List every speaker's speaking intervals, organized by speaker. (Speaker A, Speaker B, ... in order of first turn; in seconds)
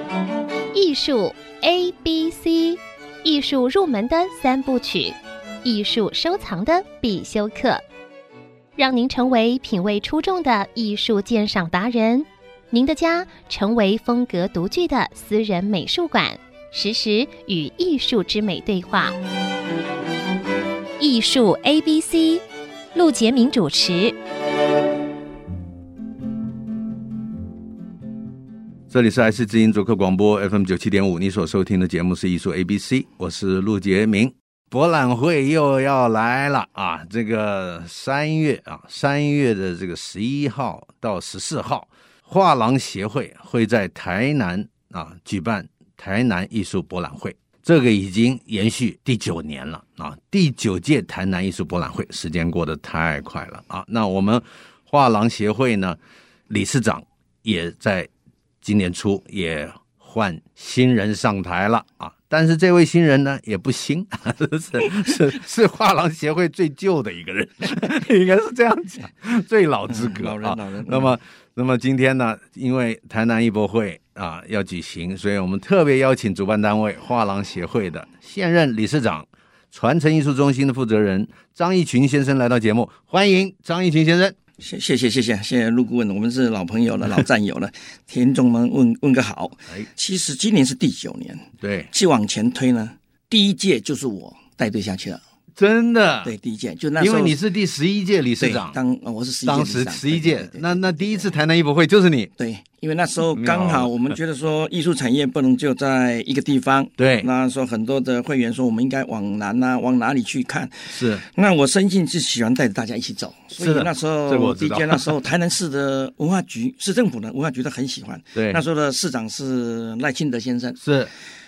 Speaker A: 0.7-7.8, 8.8-19.1, 21.0-22.4, 22.9-24.1
Speaker B: 28.9-56.0, 56.5-58.1, 58.6-84.3, 91.6-91.9, 95.6-96.3, 97.0-98.8, 99.5-102.3, 103.3-104.2, 107.0-107.3, 110.9-111.2, 113.6-115.1, 118.3-118.6, 120.8-121.1
Speaker C: 69.9-71.1, 84.6-95.2, 96.2-97.4, 98.4-101.3, 102.4-120.8